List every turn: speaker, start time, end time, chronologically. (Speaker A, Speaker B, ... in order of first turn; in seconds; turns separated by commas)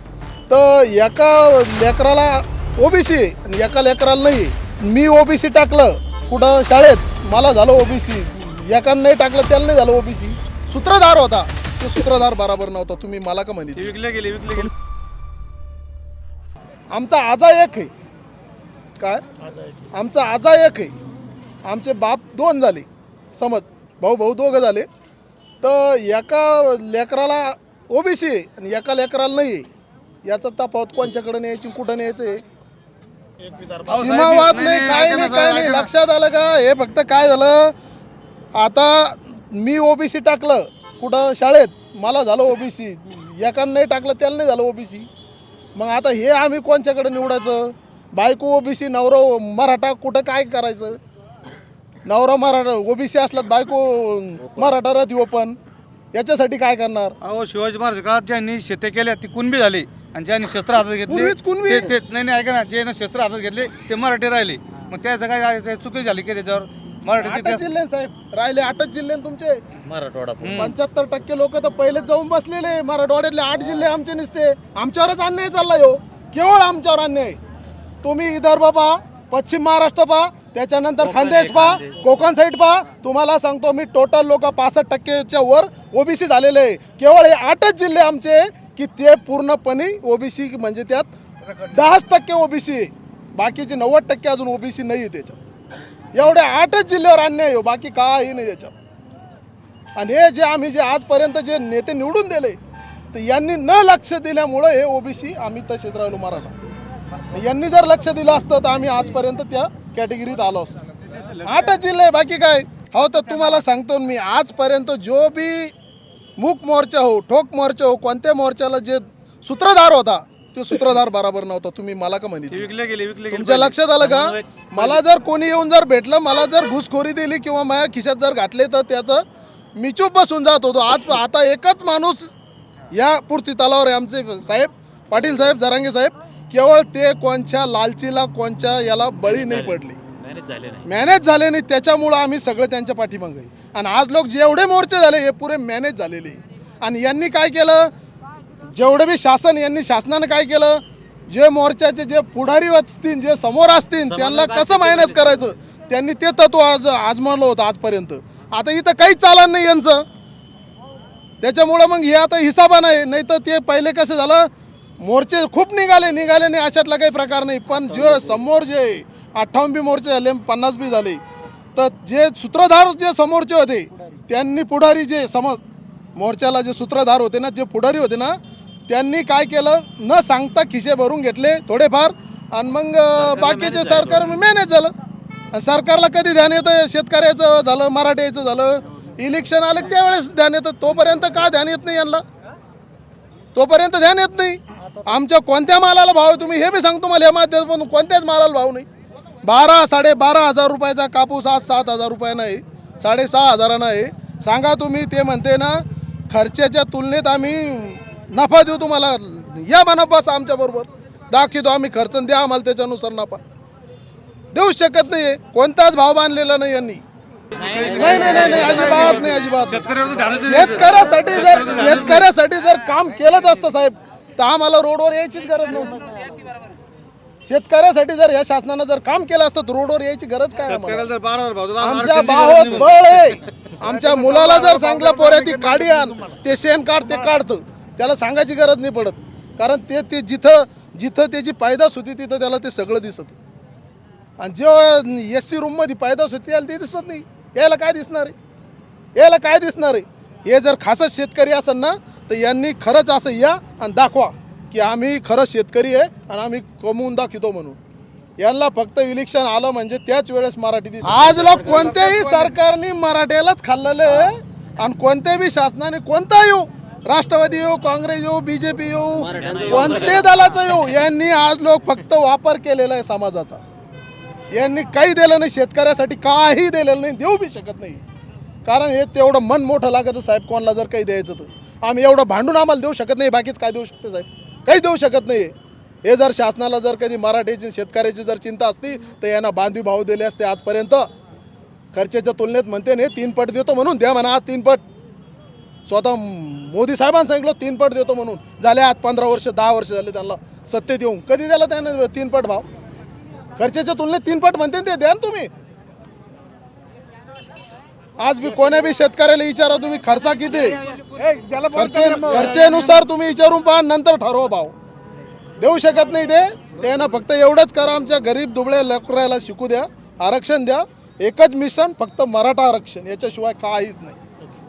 Speaker A: 0.5-13.9, Speaker B: 13.8-14.7, Speaker A: 16.9-17.9, Speaker A: 19.0-19.3, Speaker A: 19.9-20.9, Speaker A: 21.6-24.9, Speaker A: 25.6-29.7, Speaker A: 30.3-32.4, Speaker B: 33.6-35.9, Speaker A: 33.8-37.7, Speaker A: 38.6-45.1, Speaker A: 45.8-51.0, Speaker A: 52.0-55.6, Speaker C: 54.5-54.7, Speaker A: 56.1-57.2, Speaker B: 57.2-67.6, Speaker A: 61.1-61.9, Speaker A: 67.1-69.6, Speaker C: 69.8-70.6, Speaker B: 70.4-70.8, Speaker A: 70.5-77.4, Speaker A: 78.0-91.1, Speaker C: 81.0-82.1, Speaker A: 91.6-95.4, Speaker A: 96.1-98.7, Speaker A: 100.0-102.6, Speaker A: 103.1-106.5, Speaker A: 107.3-110.8, Speaker A: 111.4-115.7, Speaker A: 116.4-122.7, Speaker B: 122.5-125.0, Speaker A: 123.3-129.2, Speaker A: 129.8-132.3, Speaker A: 132.9-140.0, Speaker C: 139.3-140.9, Speaker A: 140.8-147.9, Speaker A: 148.6-160.1, Speaker C: 154.0-155.4, Speaker A: 161.4-164.5, Speaker A: 165.0-171.2, Speaker A: 171.8-175.6, Speaker A: 176.2-178.4, Speaker A: 178.9-184.9, Speaker C: 183.2-184.3, Speaker A: 185.5-192.2, Speaker A: 193.6-198.9, Speaker A: 199.4-205.8, Speaker A: 206.3-213.4, Speaker A: 214.5-217.0, Speaker B: 217.5-222.3, Speaker A: 217.9-219.9, Speaker A: 220.4-226.1, Speaker A: 227.4-231.1, Speaker B: 230.7-235.8, Speaker A: 231.8-243.3, Speaker A: 244.4-248.4, Speaker A: 249.2-257.8, Speaker A: 258.4-273.6, Speaker B: 261.6-262.5, Speaker C: 269.2-270.4, Speaker A: 274.5-278.0, Speaker A: 278.6-285.5, Speaker A: 286.0-291.1, Speaker A: 291.9-294.8, Speaker A: 295.9-302.6, Speaker A: 303.6-305.5, Speaker A: 308.2-310.8, Speaker B: 310.9-313.1, Speaker A: 311.7-314.7, Speaker A: 315.6-324.2